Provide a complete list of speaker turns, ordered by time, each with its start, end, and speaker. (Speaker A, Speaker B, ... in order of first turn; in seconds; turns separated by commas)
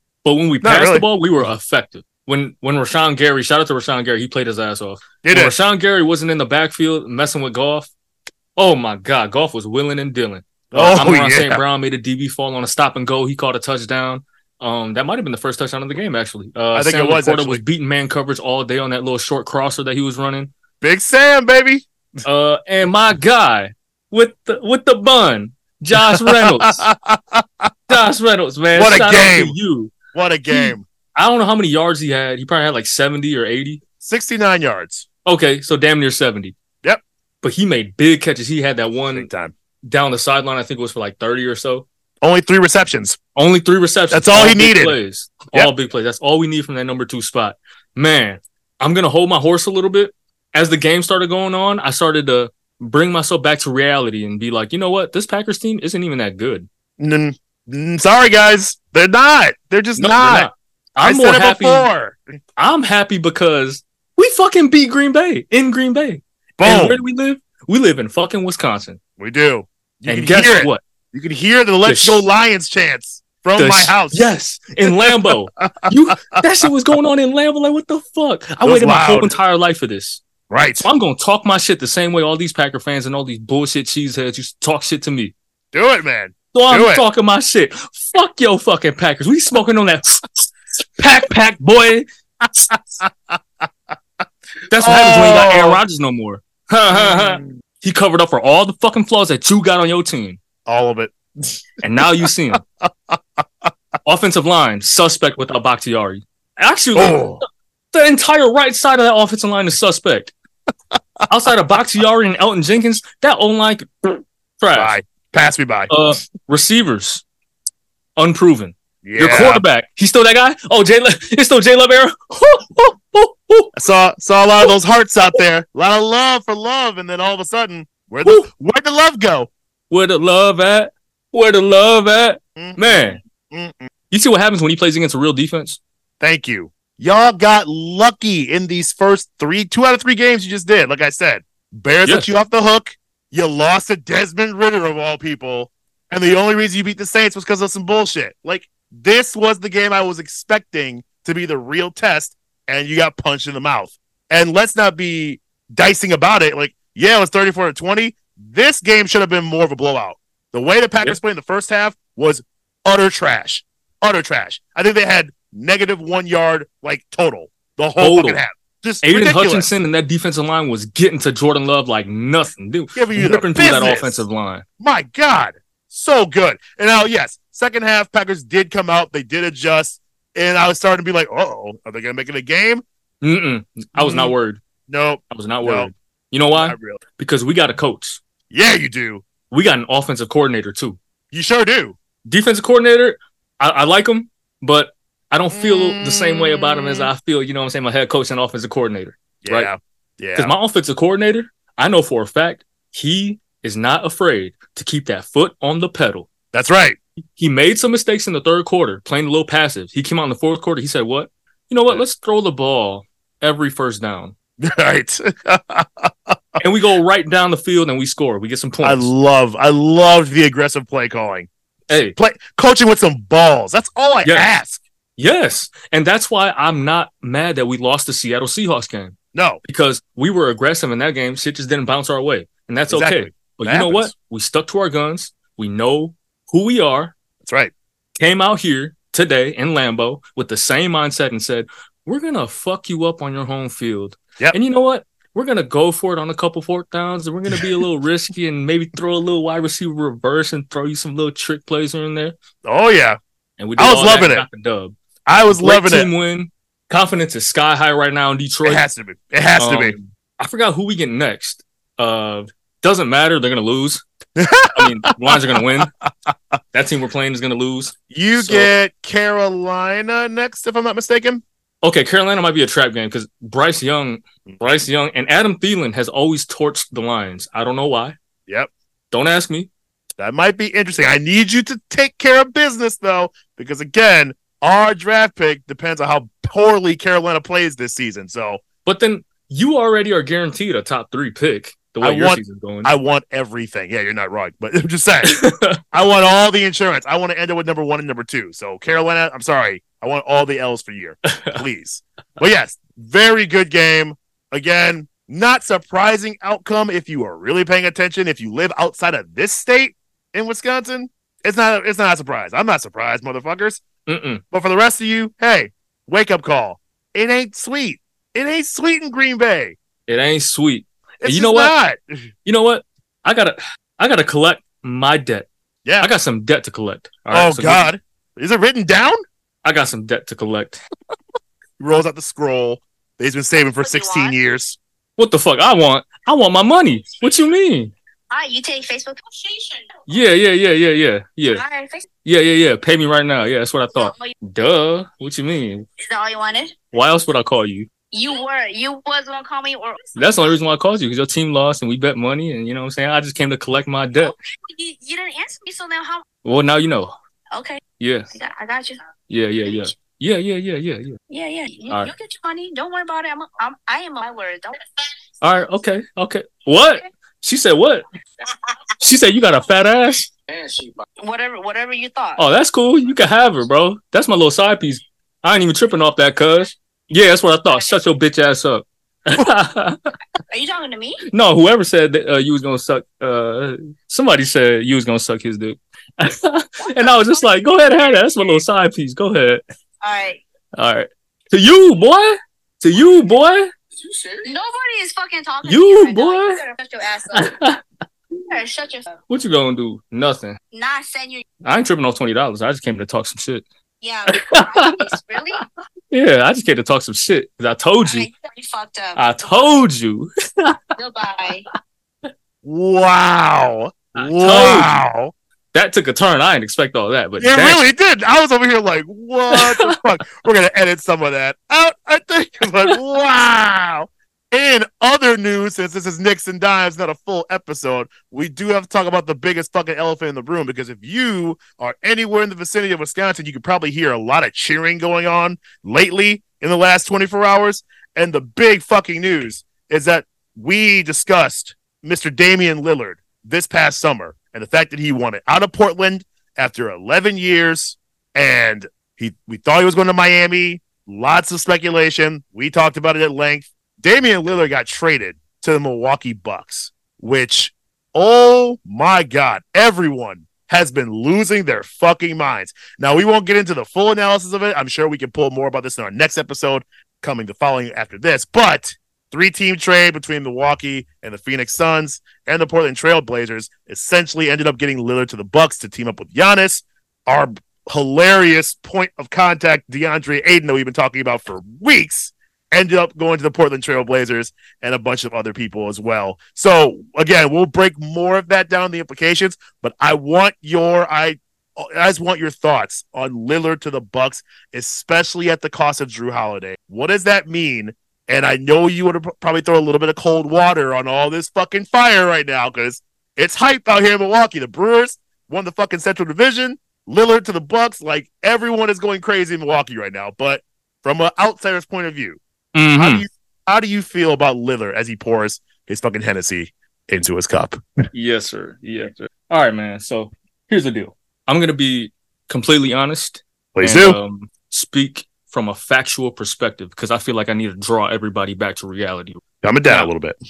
Speaker A: 0.2-7.9, Speaker B: 0.6-1.1, Speaker B: 5.2-5.5, Speaker A: 8.6-20.5, Speaker B: 10.7-11.6, Speaker B: 16.7-17.6, Speaker B: 20.8-21.9, Speaker A: 22.2-26.9, Speaker B: 26.1-27.7, Speaker A: 27.9-29.9, Speaker B: 28.7-29.6, Speaker B: 30.1-30.8, Speaker A: 30.5-33.8, Speaker B: 34.0-35.0, Speaker A: 35.2-36.5, Speaker A: 37.4-39.3, Speaker B: 39.1-39.5, Speaker A: 39.8-41.9, Speaker B: 42.2-43.2, Speaker A: 43.3-56.7, Speaker B: 44.1-45.0, Speaker B: 57.0-60.5, Speaker A: 60.0-61.9, Speaker B: 61.0-62.2, Speaker A: 62.6-69.0, Speaker B: 66.6-67.0, Speaker B: 69.2-74.2, Speaker A: 70.1-70.8, Speaker A: 71.8-72.3, Speaker A: 73.6-80.2, Speaker B: 74.9-76.4, Speaker B: 78.6-79.3, Speaker B: 80.5-80.9, Speaker A: 80.8-85.3, Speaker B: 85.7-87.0, Speaker A: 86.5-92.0, Speaker B: 92.6-93.4, Speaker A: 94.7-100.4, Speaker B: 94.8-95.8, Speaker B: 96.9-97.5, Speaker B: 100.7-102.1, Speaker A: 101.8-102.6, Speaker B: 102.8-103.2, Speaker A: 104.0-107.4, Speaker B: 106.9-107.4, Speaker A: 107.9-110.3, Speaker A: 111.3-114.9, Speaker B: 114.7-116.0, Speaker A: 115.9-117.2, Speaker A: 118.2-123.7, Speaker B: 119.0-119.6, Speaker B: 123.7-129.5, Speaker A: 129.9-133.2, Speaker B: 132.6-133.9, Speaker A: 134.1-135.8, Speaker B: 136.2-169.7, Speaker A: 168.0-168.4, Speaker A: 169.0-174.6, Speaker B: 172.9-174.2, Speaker B: 174.8-182.8, Speaker A: 183.2-184.6, Speaker B: 183.9-184.3, Speaker B: 184.9-185.9, Speaker A: 185.3-188.2, Speaker B: 186.6-187.0, Speaker B: 188.5-189.2, Speaker A: 189.5-191.0, Speaker B: 191.3-192.0, Speaker A: 192.2-199.7, Speaker B: 195.5-197.1, Speaker B: 199.4-200.5, Speaker A: 200.3-206.3, Speaker B: 206.5-207.0, Speaker A: 207.4-214.3, Speaker B: 214.6-216.6, Speaker A: 216.6-219.1, Speaker B: 218.8-221.5, Speaker A: 221.9-222.2, Speaker B: 222.1-224.8, Speaker A: 225.2-237.1, Speaker B: 229.3-229.6, Speaker B: 232.9-234.1, Speaker B: 237.4-237.7, Speaker A: 238.2-252.3, Speaker B: 252.6-253.2, Speaker A: 253.6-254.9, Speaker B: 253.8-254.4, Speaker B: 255.2-256.1, Speaker A: 255.5-258.8, Speaker B: 258.6-259.9, Speaker A: 259.6-264.0, Speaker B: 264.4-265.6, Speaker A: 264.7-265.9, Speaker A: 266.7-268.7, Speaker B: 268.1-271.4, Speaker A: 271.8-278.2, Speaker A: 279.1-279.7, Speaker B: 280.2-288.6, Speaker A: 288.8-292.9, Speaker B: 292.0-295.4, Speaker A: 295.2-295.8, Speaker B: 295.9-313.8, Speaker A: 301.3-301.6, Speaker A: 314.1-314.4, Speaker B: 314.5-319.8, Speaker A: 320.1-321.7, Speaker B: 321.2-322.2, Speaker A: 322.4-325.5, Speaker B: 325.8-326.1, Speaker A: 326.0-327.9, Speaker B: 327.3-329.2, Speaker A: 329.6-330.8, Speaker B: 331.8-334.8, Speaker C: 333.8-334.3, Speaker A: 335.2-337.9, Speaker C: 338.3-339.9, Speaker A: 340.1-341.6, Speaker C: 341.5-342.1, Speaker A: 342.2-345.9, Speaker C: 343.9-344.3, Speaker C: 346.0-346.8, Speaker A: 346.9-347.9, Speaker C: 348.1-350.5, Speaker A: 350.1-354.3, Speaker C: 354.2-356.2, Speaker A: 356.4-357.1, Speaker C: 357.5-357.8, Speaker A: 358.0-358.3, Speaker C: 358.3-359.1, Speaker A: 359.3-361.2, Speaker C: 361.3-364.8, Speaker A: 365.4-368.0, Speaker A: 369.0-370.8, Speaker C: 371.2-372.4, Speaker A: 372.4-380.0, Speaker C: 380.5-381.2, Speaker A: 381.3-389.6, Speaker C: 386.8-387.4, Speaker C: 390.0-390.4, Speaker A: 390.8-394.4, Speaker C: 394.4-397.5, Speaker A: 395.6-396.6, Speaker A: 397.3-397.8, Speaker C: 398.4-399.2, Speaker A: 399.3-400.6, Speaker C: 400.7-401.4, Speaker A: 401.6-403.6, Speaker C: 404.0-405.6, Speaker A: 404.5-405.1, Speaker A: 406.1-408.3, Speaker C: 408.0-409.2, Speaker A: 409.1-410.8, Speaker C: 410.9-411.7, Speaker B: 412.6-415.3, Speaker A: 414.1-414.9, Speaker A: 415.7-417.8, Speaker B: 417.4-512.4, Speaker A: 419.5-419.9, Speaker A: 512.7-513.2, Speaker B: 512.9-518.0, Speaker A: 518.1-530.1, Speaker B: 523.7-524.2, Speaker B: 529.6-530.4